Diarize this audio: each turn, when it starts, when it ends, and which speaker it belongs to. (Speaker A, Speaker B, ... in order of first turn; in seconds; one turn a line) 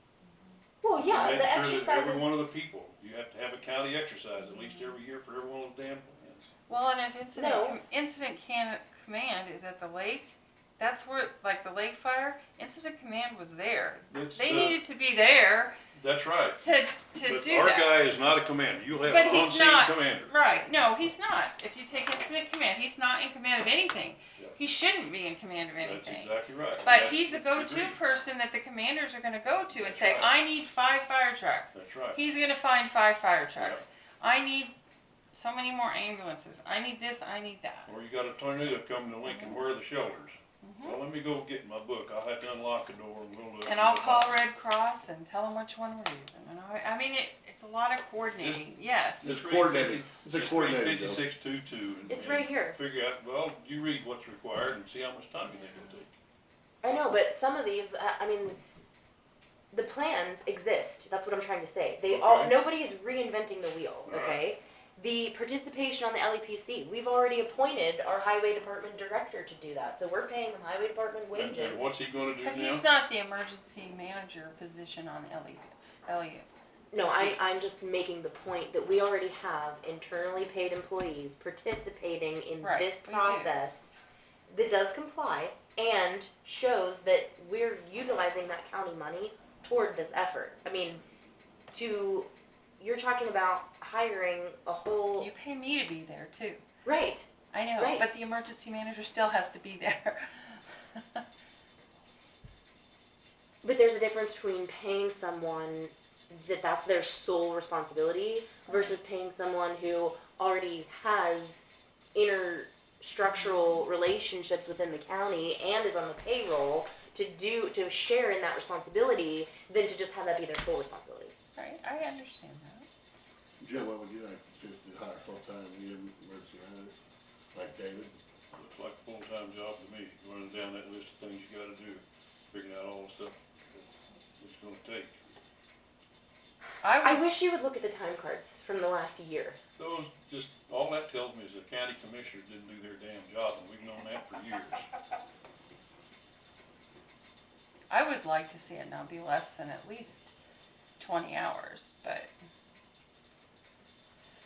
Speaker A: 0.8-2.3
Speaker B: 1.0-6.5
Speaker C: 4.4-5.0
Speaker C: 6.7-15.8
Speaker A: 7.3-7.8
Speaker B: 14.1-14.8
Speaker B: 15.9-16.6
Speaker C: 16.6-17.9
Speaker B: 17.2-20.3
Speaker C: 19.0-26.3
Speaker B: 25.8-28.0
Speaker C: 26.8-34.7
Speaker B: 29.7-30.3
Speaker B: 31.7-32.2
Speaker B: 33.6-33.8
Speaker C: 35.3-37.9
Speaker B: 37.9-44.4
Speaker C: 39.2-39.6
Speaker C: 40.6-41.0
Speaker C: 43.6-49.4
Speaker B: 48.4-48.7
Speaker B: 49.2-56.1
Speaker D: 49.2-51.2
Speaker A: 52.1-52.8
Speaker A: 56.8-58.6
Speaker A: 59.7-71.9
Speaker B: 62.0-62.5
Speaker B: 64.1-64.4
Speaker B: 71.3-72.8
Speaker C: 72.4-77.4
Speaker A: 76.9-84.0
Speaker C: 82.6-83.5
Speaker A: 84.5-91.0
Speaker A: 91.7-95.3
Speaker C: 95.2-96.6
Speaker A: 96.8-98.1
Speaker C: 97.5-101.2
Speaker A: 103.6-121.3
Speaker C: 108.7-109.0
Speaker C: 113.3-113.8
Speaker C: 121.5-122.9
Speaker D: 123.6-127.0
Speaker D: 127.5-128.2
Speaker B: 128.5-135.2
Speaker C: 136.8-137.2
Speaker A: 137.0-139.6
Speaker B: 139.8-144.8
Speaker C: 147.9-150.3
Speaker C: 151.0-152.3